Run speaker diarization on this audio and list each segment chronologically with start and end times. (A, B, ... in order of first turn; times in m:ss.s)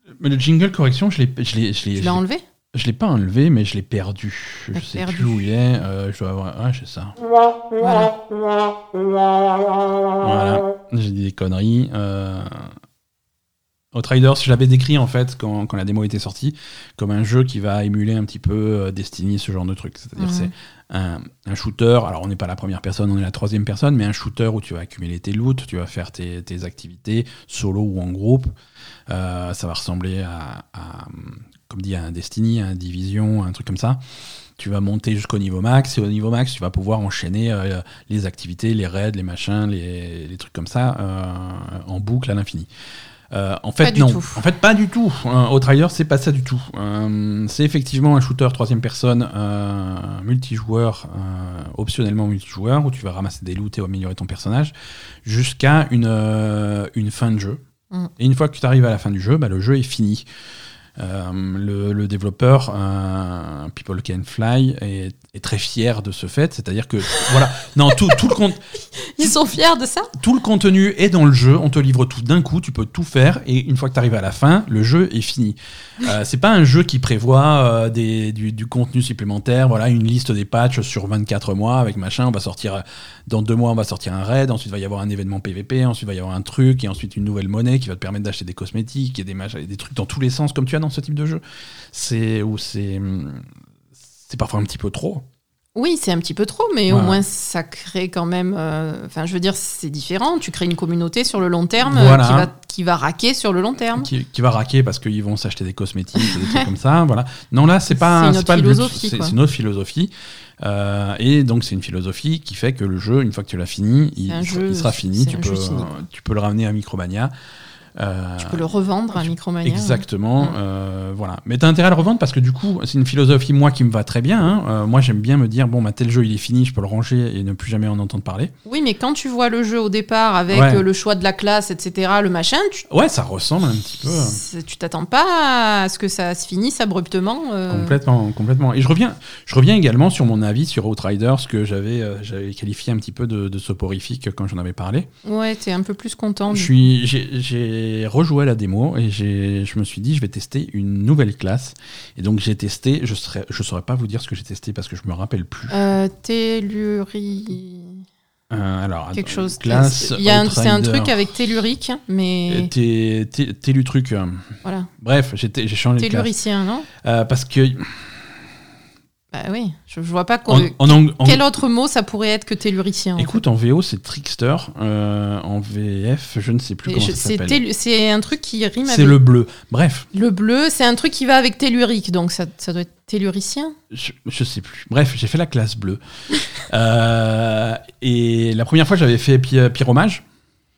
0:00.2-0:02.2 A
0:01.9-0:02.4 B
0:02.7-0:07.1 A
0:04.7-0:05.4 B
0:07.8-0:08.1 B
0:10.2-0:12.8 A
0:13.9-0:28.5 A
0:20.2-0:20.5 B
0:29.1-0:34.0 A
0:34.6-0:42.7 A
0:43.3-0:54.7 A
0:43.8-0:44.4 B
0:55.2-0:57.6 A
0:58.2-1:00.3 A
1:01.0-1:08.6 A
1:07.1-1:07.4 B
1:08.9-1:10.1 B
1:09.2-1:09.5 A
1:10.1-1:33.4 A
1:34.2-1:35.2 A
1:35.7-1:44.1 B
1:36.9-1:37.2 A
1:41.8-1:42.5 A
1:43.9-1:57.3 A
1:46.2-1:46.6 B
1:47.9-1:49.4 B
1:54.3-1:55.9 B
1:58.0-2:08.5 A
1:58.4-2:00.5 B
2:08.6-2:12.9 B
2:10.5-2:10.8 A
2:12.9-2:14.4 A
2:14.1-2:18.0 B
2:17.7-2:25.1 A
2:25.2-2:26.8 B
2:26.5-2:35.7 A
2:35.7-2:38.0 B
2:38.5-2:41.3 A
2:39.1-2:42.7 B
2:42.5-2:46.3 A
2:44.6-2:44.9 B
2:46.0-2:46.9 B
2:47.0-2:48.4 A
2:49.3-2:53.4 B
2:50.5-2:51.4 A
2:53.2-2:57.6 A
2:56.8-2:59.2 B
2:58.8-3:00.1 A
3:00.1-3:03.8 B
3:03.9-3:06.0 A
3:06.5-3:10.2 A